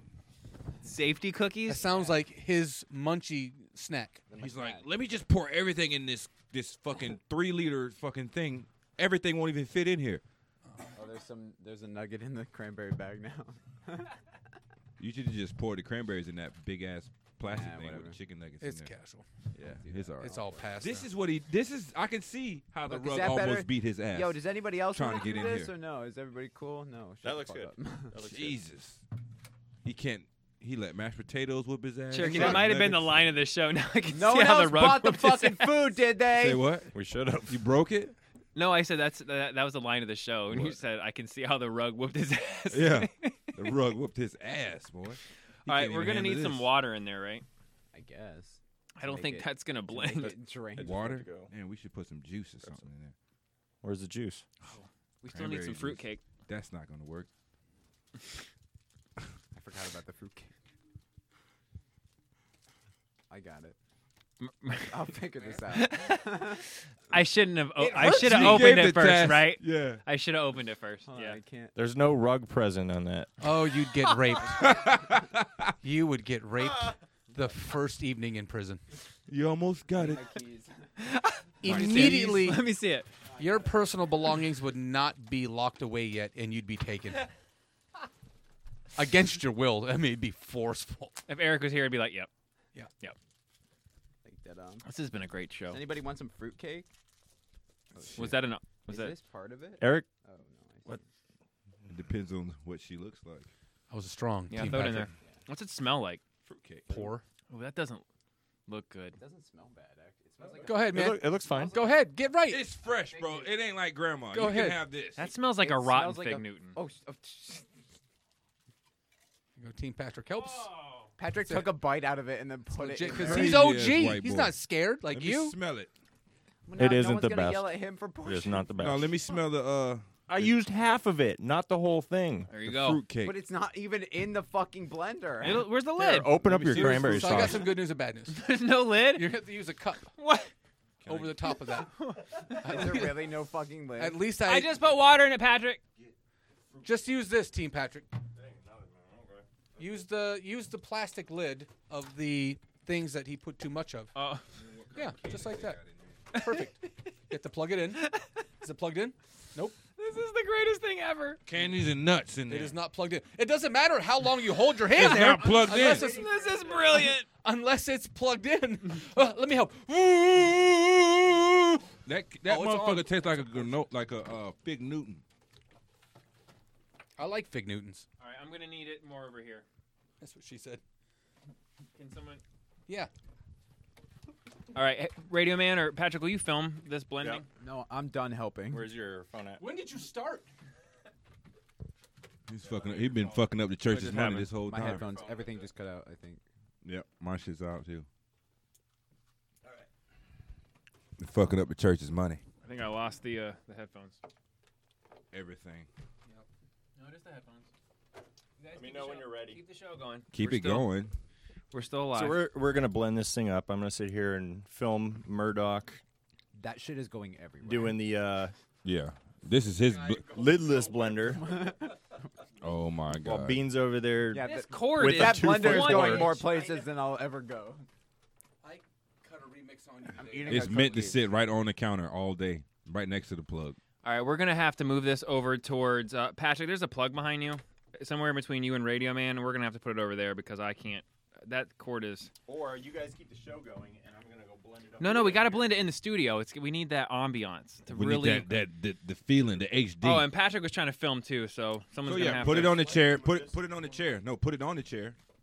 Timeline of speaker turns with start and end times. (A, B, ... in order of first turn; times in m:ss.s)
0:00.8-0:01.8 A
0:01.7-0:04.2 B
0:04.3-0:04.8 C
0:04.4-0:10.2 D
0:10.9-0:14.1 C
0:15.0-0:18.9 D
0:17.4-0:18.2 C
0:18.6-0:19.2 B
0:19.6-0:25.7 D
0:19.6-0:20.8 C
0:20.2-0:21.1 B
0:22.8-0:28.2 C
0:27.2-0:28.6 E
0:28.3-0:29.0 D
0:29.8-0:33.3 D
0:32.1-0:36.0 A
0:32.3-0:32.6 C
0:34.1-0:36.8 C
0:36.3-0:36.9 D
0:36.9-0:37.6 F
0:37.5-0:38.1 D
0:38.5-0:43.7 A
0:40.5-0:40.8 D
0:42.7-0:46.7 D
0:45.6-0:47.4 A
0:47.9-0:51.1 C
0:49.0-0:50.4 A
0:50.8-0:51.5 E
0:50.8-0:53.1 D
0:53.8-0:54.4 F
0:54.7-0:56.2 A
0:55.3-0:57.3 D
0:59.5-1:00.5 C
1:03.3-1:03.7 C
1:04.4-1:05.0 A
1:04.9-1:06.6 C
1:05.7-1:11.4 A
1:07.8-1:08.7 B
1:07.9-1:10.0 D
1:11.0-1:11.8 C
1:11.7-1:13.3 F
1:13.4-1:14.8 B
1:14.6-1:15.7 D
1:15.8-1:18.8 B
1:19.3-1:20.3 D
1:19.9-1:20.8 C
1:21.0-1:23.1 A
1:21.6-1:22.6 B
1:21.6-1:22.5 D
1:23.3-1:23.6 C
1:23.4-1:27.3 B
1:28.9-1:31.2 B
1:31.3-1:32.3 A
1:34.2-1:34.8 C
1:34.8-1:35.8 A
1:35.7-1:36.8 C
1:37.9-1:41.0 C
1:38.2-1:39.2 A
1:39.8-1:40.1 F
1:41.9-1:43.5 D
1:43.9-1:45.1 B
1:44.5-1:46.2 A
1:46.4-1:47.1 D
1:46.9-1:47.2 B
1:47.5-1:48.0 A
1:48.7-1:49.2 A
1:49.2-1:51.9 C
1:50.6-1:52.6 B
1:50.8-1:51.8 F
1:52.5-1:55.3 D
1:53.0-1:53.5 C
1:54.3-1:54.8 B
1:55.2-1:56.8 A
1:55.5-1:57.7 C
1:59.6-2:00.7 B
2:00.4-2:01.1 A
2:01.2-2:03.8 C
2:01.5-2:01.7 B
2:02.7-2:05.6 B
2:03.2-2:04.5 D
2:05.1-2:05.9 D
2:06.7-2:08.7 C
2:06.8-2:09.1 F
2:08.8-2:10.6 D
2:10.3-2:12.5 F
2:12.5-2:13.0 A
2:12.6-2:13.4 D
2:13.2-2:15.7 C
2:15.4-2:16.3 A
2:16.0-2:17.7 F
2:16.4-2:17.6 D
2:16.6-2:20.1 B
2:18.3-2:19.3 A
2:20.2-2:20.5 A
2:21.0-2:21.5 D
2:21.0-2:22.0 B
2:22.0-2:22.6 A
2:22.5-2:23.3 B
2:22.5-2:24.3 C
2:24.0-2:24.8 B
2:24.4-2:25.8 A
2:26.8-2:28.1 B
2:28.3-2:30.0 E
2:29.8-2:34.1 B
2:34.1-2:34.4 A
2:34.6-2:36.1 D
2:34.9-2:35.8 B
2:36.3-2:36.6 A
2:36.3-2:39.8 B
2:38.0-2:38.3 A
2:40.0-2:41.4 A
2:41.4-2:42.7 D
2:42.5-2:51.8 B
2:44.9-2:46.1 D
2:45.1-2:47.2 A
2:52.0-2:55.2 D
2:52.4-2:53.8 B
2:57.2-2:58.0 B
2:58.2-2:59.6 A
3:00.2-3:00.8 B
3:01.9-3:02.4 A
3:04.7-3:07.4 A
3:07.6-3:09.0 C
3:08.7-3:09.6 F
3:09.6-3:10.5 B
3:12.5-3:15.1 D
3:12.6-3:13.6 E
3:13.9-3:14.3 A
3:14.6-3:16.4 C
3:14.9-3:15.7 E
3:16.8-3:18.0 D
3:21.2-3:22.4 D
3:22.6-3:24.2 A
3:25.3-3:25.9 D
3:27.0-3:27.7 A
3:28.6-3:30.9 A
3:28.7-3:29.6 E
3:30.3-3:31.1 D
3:31.7-3:32.4 A
3:32.1-3:36.0 F
3:36.6-3:38.1 C
3:37.6-3:38.5 F
3:38.8-3:40.4 D
3:39.9-3:41.4 E
3:40.2-3:41.5 F
3:41.2-3:42.0 C
3:42.6-3:43.7 D
3:43.1-3:46.4 F
3:44.3-3:47.8 C
3:44.4-3:46.5 A
3:48.6-3:50.7 B
3:50.2-3:51.2 C
3:50.5-3:53.8 D
3:54.0-4:02.3 A
4:02.4-4:05.8 E
4:05.0-4:08.5 A
4:07.9-4:10.3 D
4:10.0-4:12.8 A
4:12.0-4:15.2 D
4:12.1-4:14.2 E